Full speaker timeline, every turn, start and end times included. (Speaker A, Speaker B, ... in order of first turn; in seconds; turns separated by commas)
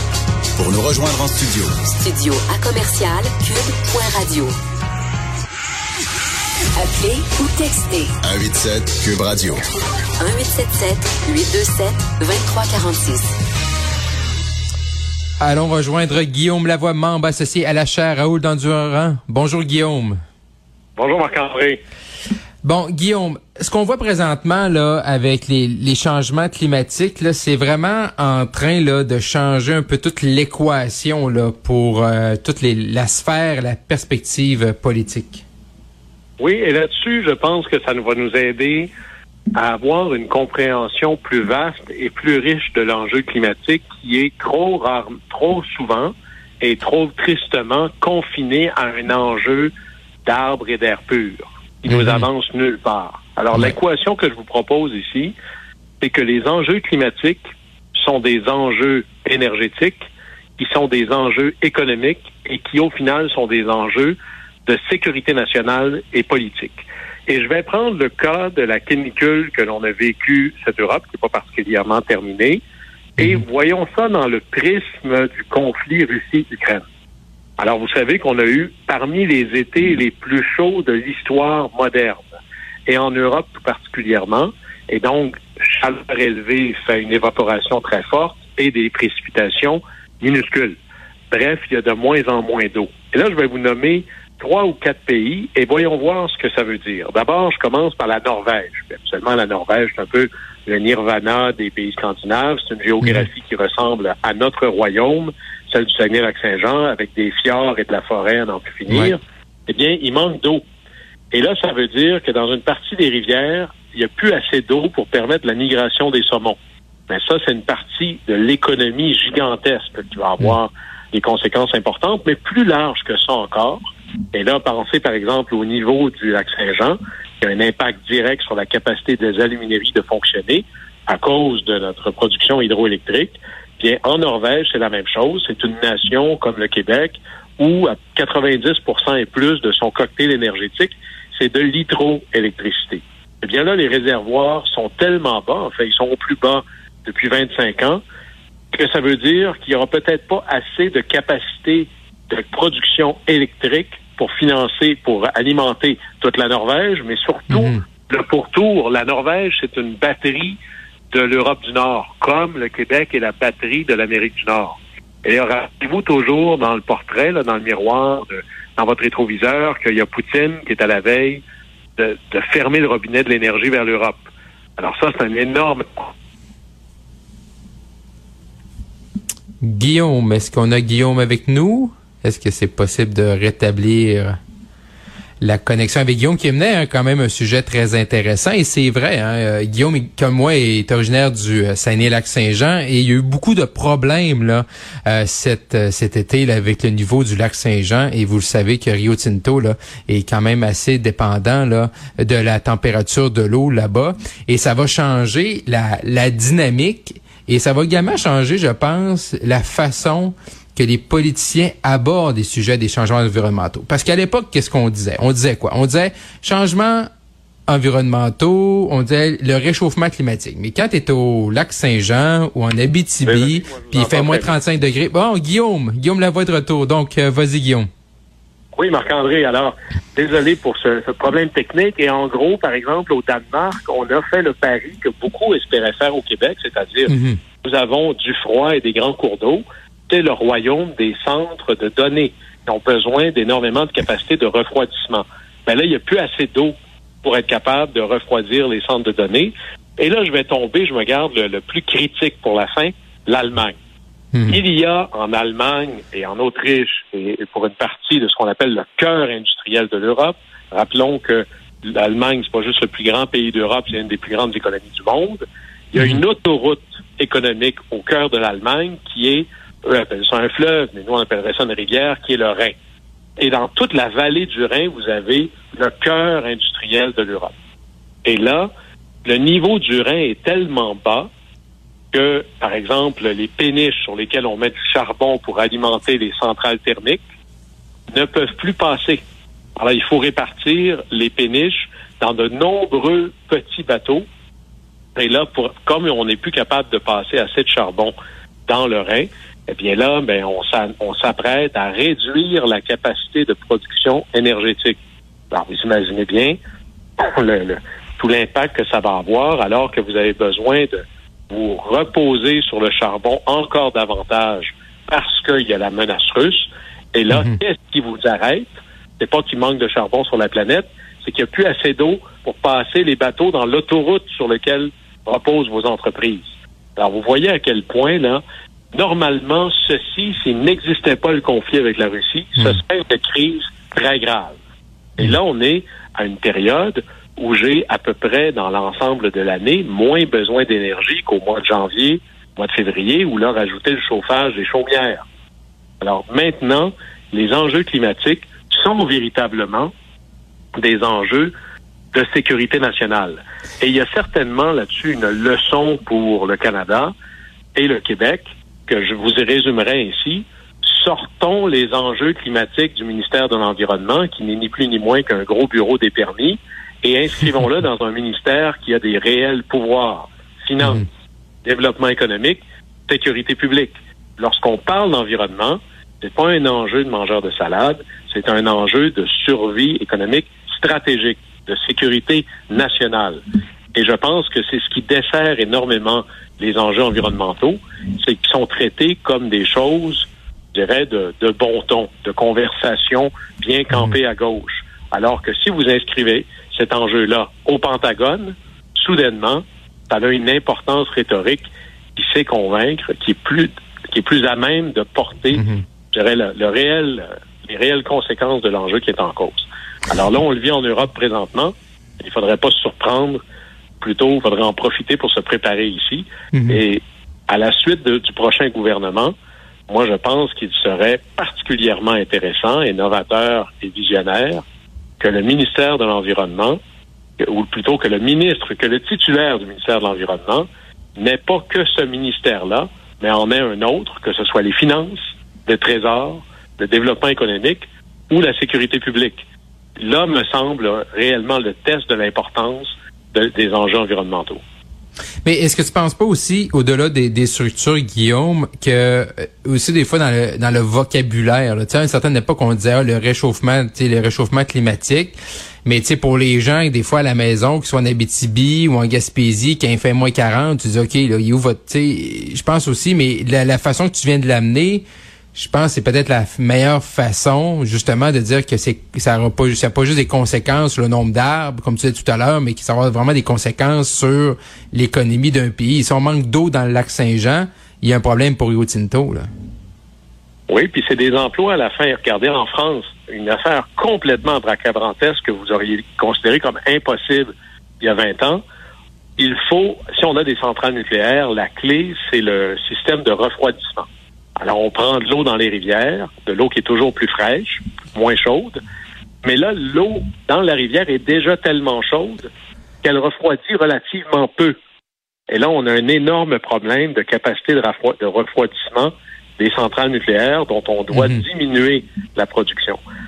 Speaker A: 0.6-1.7, Speaker B: 2.0-4.6, Speaker B: 6.8-8.2, Speaker A: 8.2-9.7, Speaker B: 10.2-13.3, Speaker C: 15.4-20.2, Speaker D: 21.0-21.8, Speaker C: 22.6-35.4, Speaker D: 36.4-38.9, Speaker D: 39.5-49.7, Speaker D: 50.2-55.3, Speaker C: 51.9-52.3, Speaker D: 56.0-57.4, Speaker D: 58.0-60.0, Speaker D: 60.6-72.6, Speaker D: 73.2-76.8, Speaker D: 77.6-82.3, Speaker D: 82.9-90.8, Speaker D: 91.3-110.6, Speaker C: 103.0-103.3, Speaker D: 111.3-116.6, Speaker D: 117.1-123.8, Speaker D: 124.3-148.0, Speaker D: 148.7-160.6, Speaker C: 157.5-157.8, Speaker D: 161.1-171.4, Speaker D: 172.0-176.1, Speaker C: 179.6-184.4, Speaker C: 185.4-217.1, Speaker C: 217.7-227.9, Speaker D: 223.2-224.5, Speaker D: 228.7-253.8, Speaker C: 237.1-237.4, Speaker C: 254.3-254.6, Speaker D: 254.5-272.8, Speaker C: 266.0-266.2, Speaker D: 273.4-277.5, Speaker D: 278.2-278.7, Speaker D: 279.2-281.3, Speaker D: 282.1-287.2, Speaker D: 288.1-289.2, Speaker D: 289.8-294.3, Speaker D: 295.1-298.1, Speaker D: 298.7-305.0, Speaker D: 305.5-306.6, Speaker D: 307.2-328.4, Speaker D: 328.9-334.6, Speaker D: 335.2-345.2, Speaker D: 346.0-349.9, Speaker D: 350.8-351.5, Speaker D: 352.1-357.1, Speaker D: 357.8-371.1, Speaker D: 371.6-383.4, Speaker D: 383.9-413.4, Speaker C: 405.5-405.8, Speaker D: 414.0-419.3, Speaker C: 416.5-416.8, Speaker D: 419.9-424.6, Speaker D: 425.2-426.8, Speaker D: 427.4-439.4, Speaker D: 440.0-444.6, Speaker C: 445.4-479.5, Speaker D: 480.7-488.6, Speaker D: 489.4-498.8, Speaker D: 499.4-502.5, Speaker D: 503.0-504.8, Speaker D: 505.5-513.0, Speaker C: 511.1-511.4